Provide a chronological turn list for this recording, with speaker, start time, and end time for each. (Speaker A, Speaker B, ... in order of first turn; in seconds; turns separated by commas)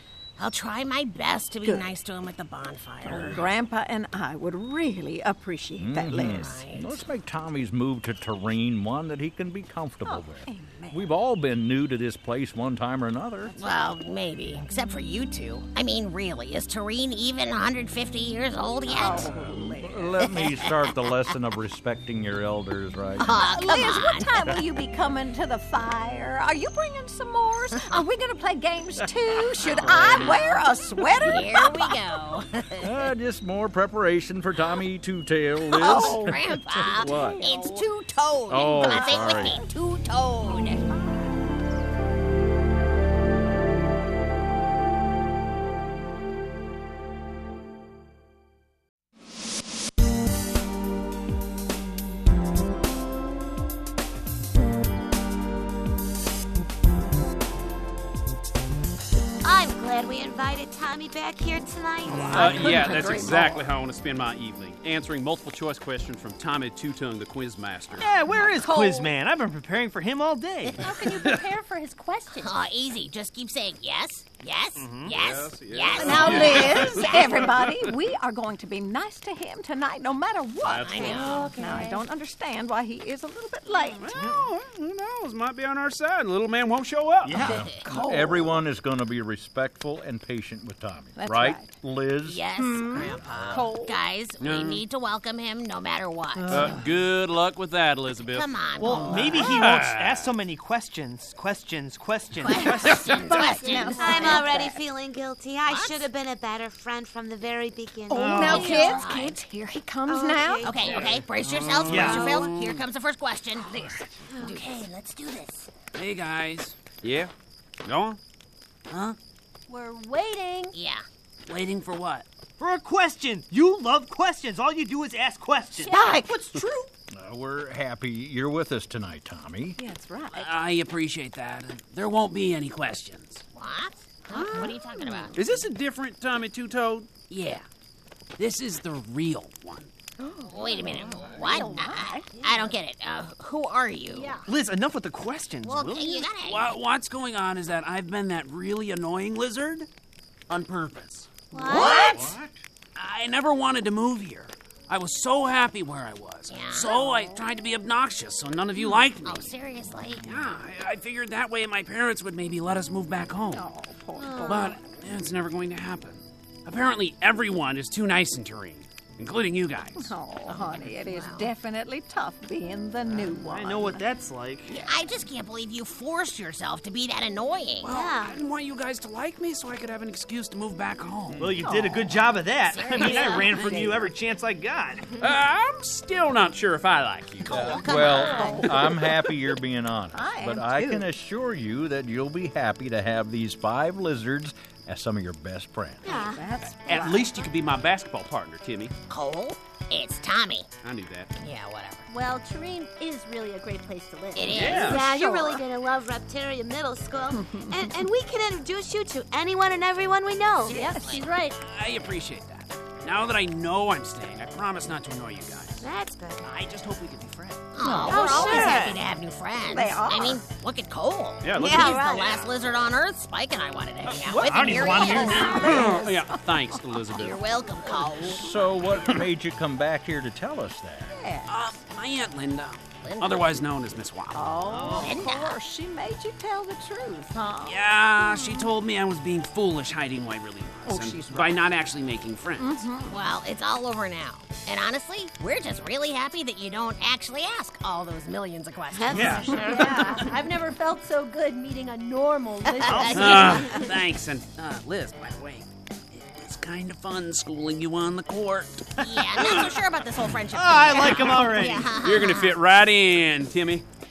Speaker A: 0.4-3.5, Speaker B: 1.6-1.9, Speaker C: 3.0-3.5, Speaker B: 3.1-6.6, Speaker C: 5.8-13.5, Speaker A: 6.1-7.0, Speaker B: 10.1-11.1, Speaker B: 13.5-13.7, Speaker A: 13.6-19.3, Speaker B: 18.9-20.3, Speaker C: 18.9-23.4, Speaker A: 20.2-20.7, Speaker A: 23.2-24.3, Speaker B: 23.2-32.0, Speaker A: 27.7-28.1, Speaker A: 29.6-32.9, Speaker C: 29.8-30.4, Speaker C: 32.8-37.5, Speaker B: 35.7-37.9, Speaker A: 35.7-40.9, Speaker C: 38.5-39.6, Speaker B: 38.8-39.6, Speaker B: 40.5-41.3, Speaker D: 59.4-63.3, Speaker E: 62.1-62.7, Speaker B: 62.2-63.7, Speaker F: 62.3-68.1, Speaker E: 68.0-71.0, Speaker B: 68.3-69.1, Speaker G: 70.8-72.5, Speaker A: 72.4-77.5, Speaker E: 74.8-75.2, Speaker F: 75.1-77.1, Speaker B: 75.9-84.2, Speaker E: 76.6-76.9, Speaker F: 80.6-81.5, Speaker A: 80.7-81.5, Speaker G: 81.0-82.1, Speaker F: 84.0-87.3, Speaker E: 84.2-84.5, Speaker E: 87.2-87.7, Speaker C: 87.3-93.6, Speaker B: 87.4-88.7, Speaker A: 87.4-87.8, Speaker B: 91.2-91.7, Speaker A: 92.2-96.7, Speaker B: 92.6-94.0, Speaker F: 94.4-94.8, Speaker E: 96.4-97.0, Speaker F: 96.5-98.5, Speaker A: 98.2-99.3, Speaker E: 98.8-103.5, Speaker F: 99.1-100.3, Speaker A: 102.4-104.5, Speaker B: 102.5-104.8, Speaker D: 104.0-108.8, Speaker A: 105.7-106.0, Speaker E: 108.1-108.8, Speaker B: 108.1-110.8, Speaker A: 108.4-109.4, Speaker G: 108.4-109.2, Speaker D: 110.1-111.2, Speaker A: 110.6-115.7, Speaker F: 111.0-112.8, Speaker E: 111.9-112.5, Speaker D: 111.9-112.5, Speaker D: 114.3-114.6, Speaker H: 116.0-116.8, Speaker F: 116.8-117.3, Speaker F: 117.8-118.2, Speaker H: 118.9-119.2, Speaker G: 119.7-120.7, Speaker A: 120.7-121.1, Speaker H: 121.5-122.3, Speaker E: 122.6-126.9, Speaker G: 125.8-126.2, Speaker B: 125.8-126.7, Speaker C: 127.1-129.8, Speaker B: 129.8-130.5, Speaker H: 130.3-133.4, Speaker A: 133.5-135.4, Speaker B: 134.3-135.7, Speaker F: 135.3-137.1, Speaker H: 137.3-137.7, Speaker H: 138.4-139.9, Speaker B: 140.2-142.3, Speaker A: 140.5-144.4, Speaker G: 141.5-141.9, Speaker G: 144.1-144.5, Speaker E: 144.5-146.3, Speaker A: 145.6-146.8, Speaker H: 146.4-149.9, Speaker H: 150.5-152.3, Speaker G: 151.5-152.3, Speaker A: 151.7-152.2, Speaker B: 151.8-152.1, Speaker C: 152.1-152.5, Speaker H: 152.9-159.5, Speaker A: 156.5-157.0, Speaker B: 156.9-157.5, Speaker A: 159.2-160.2, Speaker H: 160.3-163.7, Speaker F: 160.4-160.9, Speaker B: 163.5-164.9, Speaker D: 164.2-164.8, Speaker H: 164.5-170.1, Speaker B: 170.0-174.1, Speaker A: 170.5-171.5, Speaker E: 173.1-174.7, Speaker B: 174.7-175.0, Speaker A: 174.7-177.9, Speaker H: 177.8-181.5, Speaker D: 177.9-178.4, Speaker E: 181.4-185.2, Speaker B: 181.6-182.2, Speaker A: 182.7-183.5, Speaker B: 182.9-184.1, Speaker F: 185.2-187.9, Speaker A: 187.4-188.7, Speaker C: 187.7-196.2, Speaker B: 187.9-189.5, Speaker B: 190.1-191.1, Speaker D: 196.0-196.4, Speaker B: 196.0-197.5, Speaker F: 196.8-198.9, Speaker A: 199.1-200.7, Speaker F: 200.8-201.3, Speaker A: 201.4-202.1, Speaker G: 202.1-205.2, Speaker A: 204.3-205.3, Speaker F: 204.5-205.0, Speaker D: 204.6-211.0, Speaker B: 207.3-208.0, Speaker A: 210.7-211.3, Speaker G: 210.7-211.6, Speaker H: 211.6-215.8, Speaker D: 215.8-216.4, Speaker H: 216.4-217.7, Speaker A: 217.8-225.9, Speaker B: 217.8-219.0, Speaker E: 218.1-218.9, Speaker D: 218.1-218.9, Speaker B: 219.7-220.5, Speaker F: 221.4-222.5, Speaker B: 221.6-222.3, Speaker D: 221.7-222.0, Speaker F: 224.1-224.6, Speaker E: 224.2-225.9, Speaker B: 224.6-227.3, Speaker F: 225.5-227.4, Speaker A: 227.1-228.5, Speaker B: 227.8-228.5, Speaker C: 228.3-231.1, Speaker B: 231.1-231.5, Speaker H: 231.5-234.5, Speaker A: 233.0-233.6, Speaker B: 234.3-238.7, Speaker E: 234.6-235.3, Speaker A: 235.0-235.6, Speaker H: 237.7-242.9, Speaker B: 240.8-241.7, Speaker B: 242.6-243.2, Speaker A: 243.1-249.9, Speaker D: 249.0-250.0, Speaker E: 249.1-250.2, Speaker B: 249.5-250.0, Speaker G: 249.6-253.9, Speaker A: 252.7-253.9, Speaker E: 252.8-253.6, Speaker F: 253.2-253.6, Speaker H: 253.2-259.0, Speaker A: 259.0-262.6, Speaker E: 259.2-259.8, Speaker E: 260.5-262.0, Speaker F: 261.9-263.9